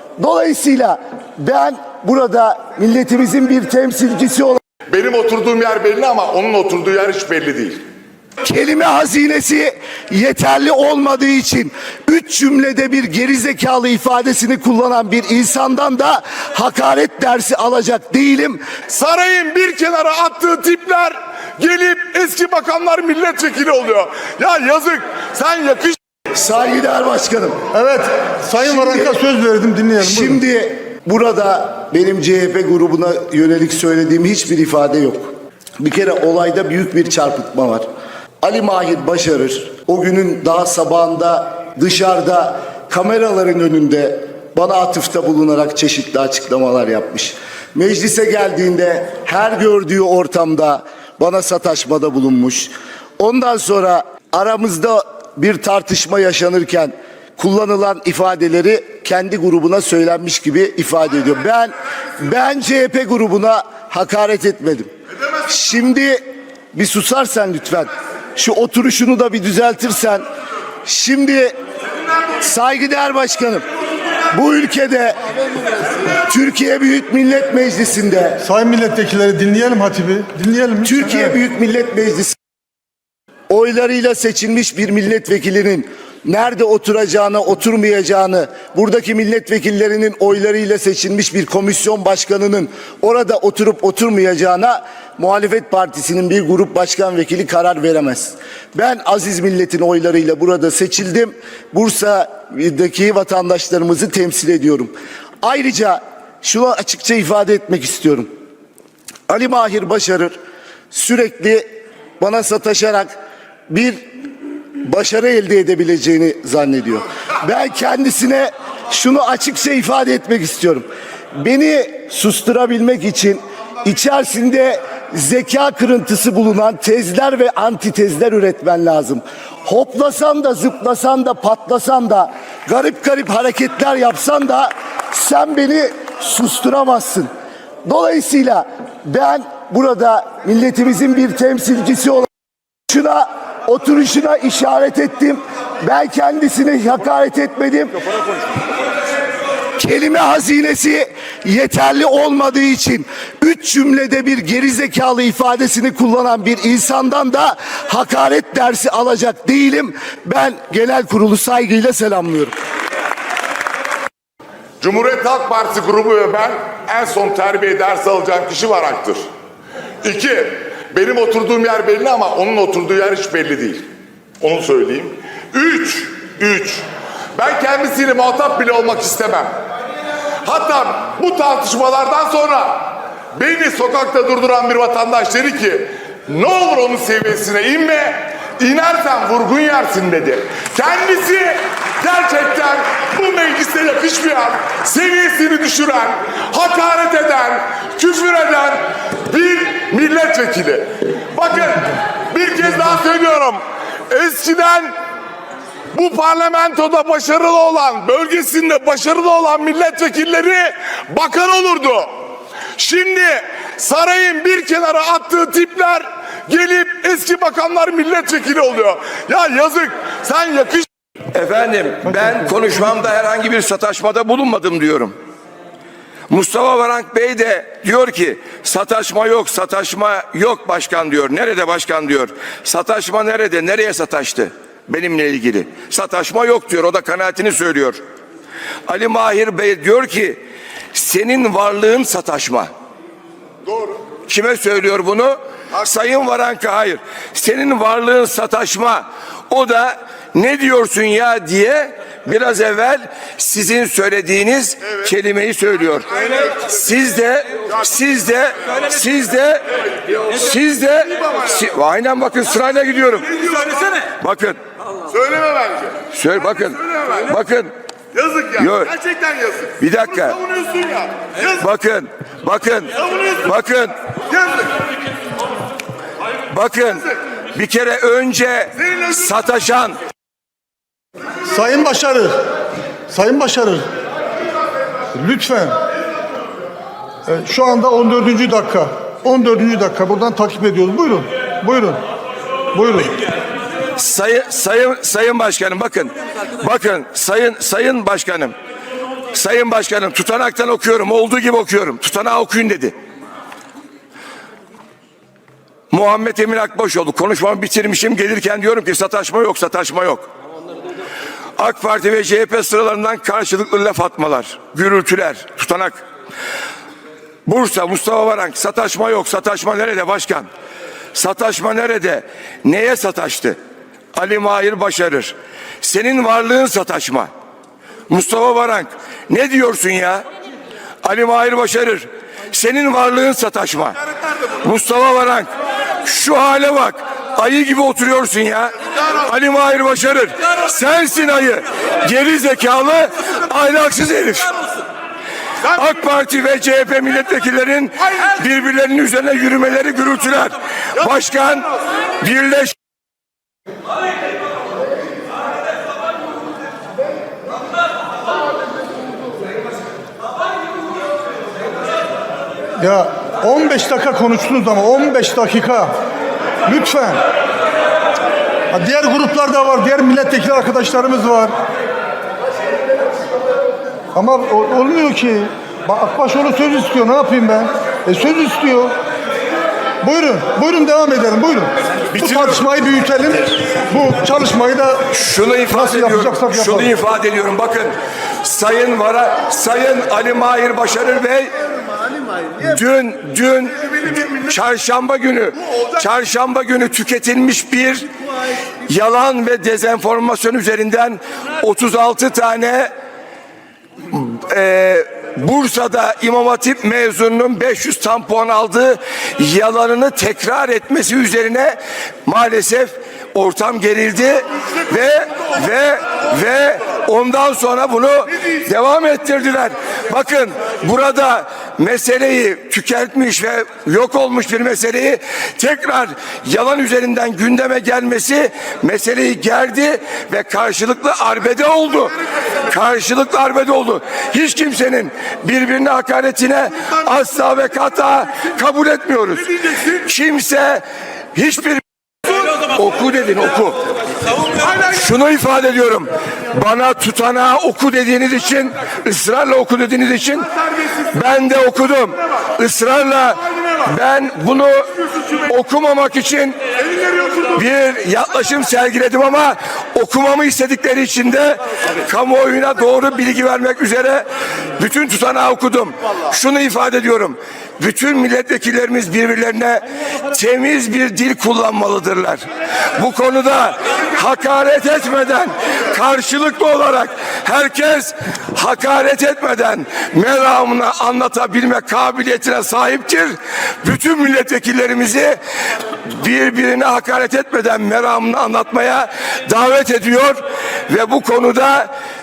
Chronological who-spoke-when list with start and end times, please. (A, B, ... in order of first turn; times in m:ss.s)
0:00.2-0:04.6 A
0:04.9-0:07.8 B
0:08.4-0:18.6 A
0:18.9-0:26.0 B
0:26.3-0:27.6 A
0:27.7-0:30.4 C
0:30.0-0:37.8 A
0:38.4-1:04.9 A
1:05.5-1:06.2 A
1:06.7-1:10.2 A
1:10.8-1:11.5 A
1:12.4-1:13.6 A
1:14.3-1:15.2 A
1:16.2-1:18.4 A
1:18.4-1:21.4 C
1:20.8-1:22.3 A
1:23.5-1:48.3 A
1:49.3-1:50.4 A
1:50.9-1:51.7 A
1:52.2-1:53.1 A
1:53.7-1:54.0 A
1:54.8-2:00.9 A
2:01.4-2:17.3 A
2:17.8-2:22.3 A
2:22.9-2:28.0 A
2:29.8-2:42.5 A
2:44.8-2:49.2 B
2:50.0-2:53.8 B
2:54.4-2:56.8 B
2:57.4-2:59.5 B
3:00.4-3:24.9 B
3:25.9-3:32.1 B
3:32.8-3:40.9 B
3:41.3-3:45.1 D
3:46.3-3:58.0 D
3:58.9-4:00.4 D
4:00.9-4:02.7 D
4:04.3-4:19.6 D
4:20.3-4:24.6 D
4:25.3-4:25.8 B
4:26.1-4:27.7 D
4:28.5-4:29.0 D
4:29.8-4:30.4 D
4:31.4-4:33.9 D
4:36.5-4:40.0 D
4:41.5-4:42.3 C
4:43.1-4:43.8 C
4:45.1-4:45.8 C
4:47.3-4:52.0 C
4:52.7-4:53.2 C
4:54.0-4:58.5 D
4:59.3-5:03.0 D
5:05.9-5:10.3 D
5:11.6-5:16.0 D
5:17.4-5:20.5 D
5:21.1-5:23.6 D
5:24.1-5:27.3 D
5:28.1-5:30.2 D
5:31.0-5:34.0 D
5:34.6-5:35.5 D
5:36.0-5:44.5 D
5:45.7-5:52.7 D
6:02.8-6:05.9 C
6:06.6-6:07.2 C
6:08.7-6:11.5 C
6:14.1-6:18.9 C
6:20.0-6:25.1 C
6:25.1-6:31.5 D
6:25.7-6:26.9 C
6:32.6-6:38.1 D
6:38.8-6:42.9 D
6:44.1-7:20.8 D
7:21.3-7:23.8 D
7:24.6-7:30.5 D
7:31.1-7:34.8 D
7:35.4-7:36.6 D
7:37.4-7:52.4 D
7:53.0-8:05.4 D
8:06.1-8:11.9 D